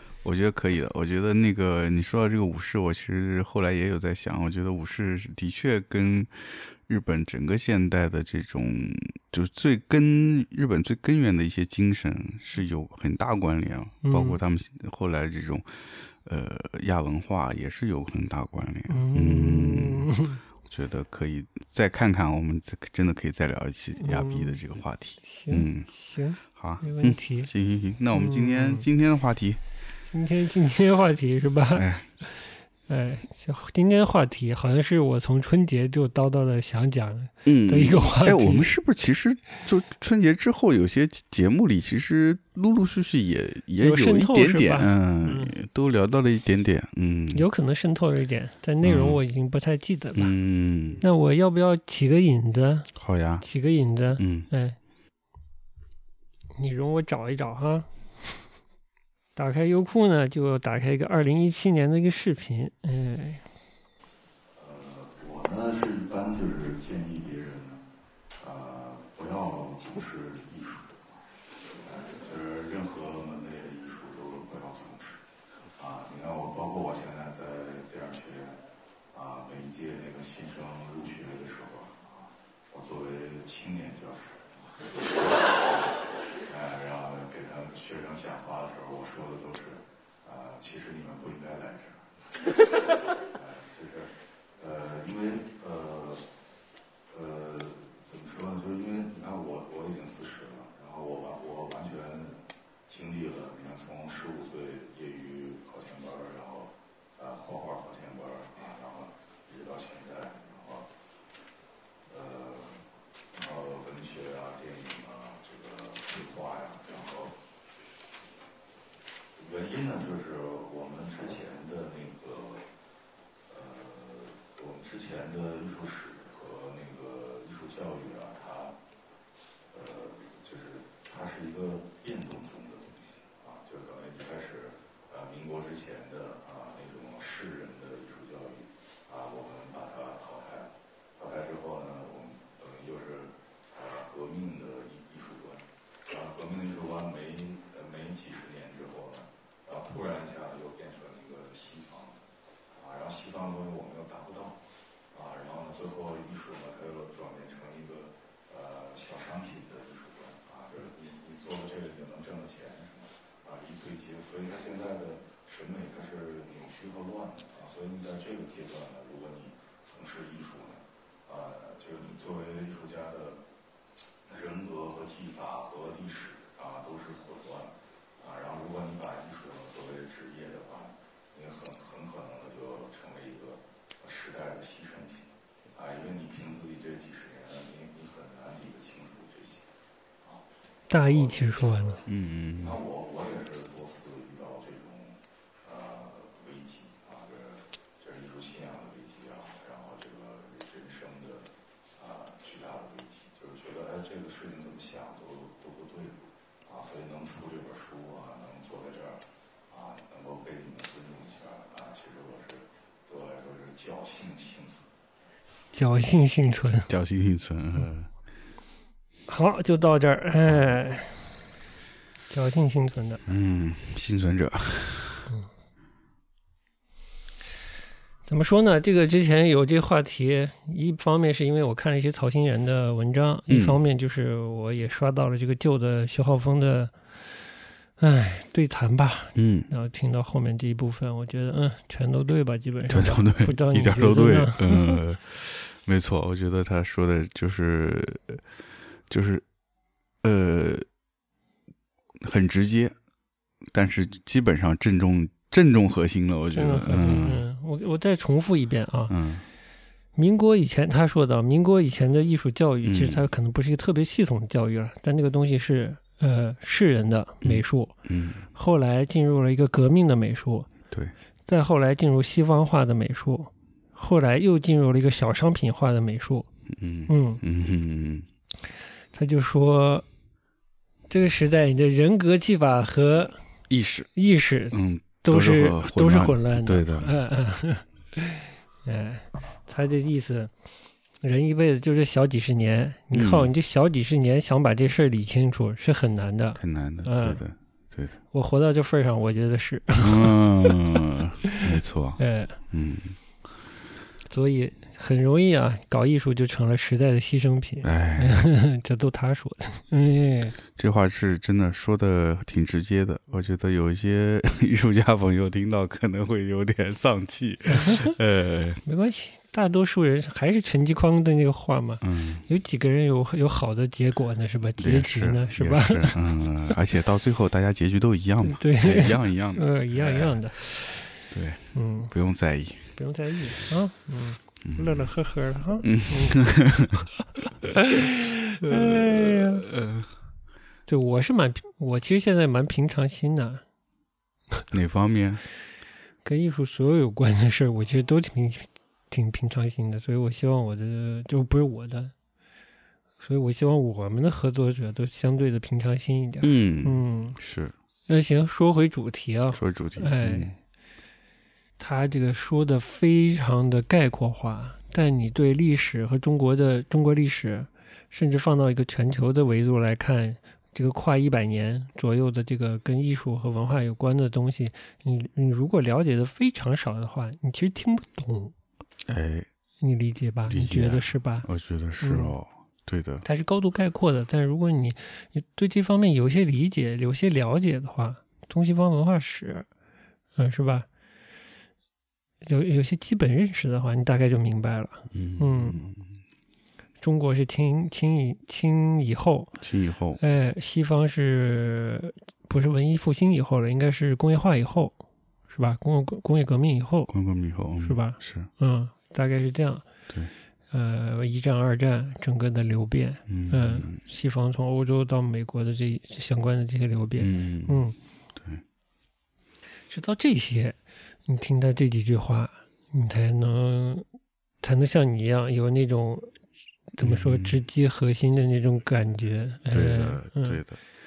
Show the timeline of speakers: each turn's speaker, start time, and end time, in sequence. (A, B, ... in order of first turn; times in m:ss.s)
0:00.2-0:20.1 A
0:14.0-0:14.4 B
0:18.9-0:20.4 B
0:20.7-0:25.9 A
0:24.0-0:24.6 B
0:25.2-0:27.5 B
0:26.5-0:29.6 A
0:28.1-0:28.8 B
0:30.0-0:32.3 B
0:31.7-0:32.1 A
0:32.9-0:38.7 B
0:37.4-0:47.4 A
0:43.8-0:45.5 B
0:47.3-0:50.3 B
0:48.8-0:49.2 A
0:50.2-0:51.0 A
0:51.0-0:54.8 B
0:53.0-0:53.4 A
0:54.2-0:54.5 A
0:56.6-0:58.3 B
0:59.4-1:03.4 B
1:04.5-1:07.8 C
1:08.4-1:15.2 C
1:15.8-1:18.6 C
1:19.1-1:36.2 C
1:37.1-1:50.9 C
1:52.1-1:57.4 C
1:59.4-2:02.6 C
2:03.5-2:08.7 C
2:09.7-2:32.2 C
2:32.7-2:34.6 C
2:35.1-2:53.4 C
2:54.2-3:09.7 C
3:10.2-3:12.0 C
3:10.9-3:12.0 B
3:12.1-3:12.8 A
3:12.6-3:34.9 C
3:35.7-3:36.9 B
3:36.9-3:38.1 A
3:39.3-3:41.2 B
3:42.3-3:43.2 B
3:43.3-3:45.3 A
3:48.2-3:57.0 B
3:53.5-3:53.8 A
3:58.0-4:05.0 B
3:59.4-3:59.7 A
4:02.9-4:08.4 A
4:09.1-4:09.4 A
4:10.2-4:10.8 A
4:12.2-4:12.9 A
4:13.7-4:17.4 A
4:16.5-4:19.1 B
4:19.1-4:19.4 A
4:20.2-4:28.0 B
4:22.8-4:23.2 A
4:27.4-4:28.4 A
4:28.5-4:30.7 B
4:31.5-4:36.5 B
4:36.7-4:38.3 A
4:37.1-4:37.4 B
4:39.1-4:40.0 B
4:41.1-4:43.4 B
4:43.7-4:44.1 A
4:44.2-4:50.5 B
4:44.7-4:47.1 A
4:51.2-4:57.4 B
4:53.1-4:53.5 A
4:56.6-4:58.1 A
4:58.3-5:00.7 B
5:00.0-5:03.2 A
5:02.2-5:02.6 B
5:04.3-5:10.6 B
5:07.8-5:08.4 A
5:10.7-5:18.8 A
5:17.7-5:18.1 B
5:18.8-5:26.3 B
5:22.0-5:22.4 A
5:24.8-5:32.9 A
5:28.4-5:30.6 B
5:31.7-5:32.1 B
5:32.9-5:36.4 B
5:34.6-5:35.0 A
5:35.8-5:37.1 A
5:37.7-5:39.6 B
5:38.6-5:40.1 A
5:40.9-5:43.6 B
5:44.7-5:45.4 A
5:46.2-5:52.1 B
5:53.2-5:57.4 B
5:56.4-5:57.7 A
5:58.1-6:00.5 B
5:59.5-6:00.5 A
6:01.8-6:18.5 B
6:19.1-6:19.5 A
6:19.8-6:21.5 B
6:20.5-6:23.2 A
6:22.0-6:22.3 B
6:23.2-6:29.7 B
6:30.4-6:30.9 B
6:32.4-6:35.8 B
6:35.1-6:36.1 A
6:37.0-6:39.5 B
6:39.6-6:40.2 A
6:40.2-6:45.0 B
6:45.5-6:47.1 B
6:47.1-6:48.5 A
6:47.8-6:49.8 B
6:50.7-6:57.9 B
6:53.3-6:54.0 A
6:57.2-6:57.8 A
6:58.4-6:58.6 A
6:59.9-7:04.0 B
7:04.6-7:06.3 B
7:07.0-7:10.6 B
7:07.0-7:07.6 A
7:09.7-7:10.8 A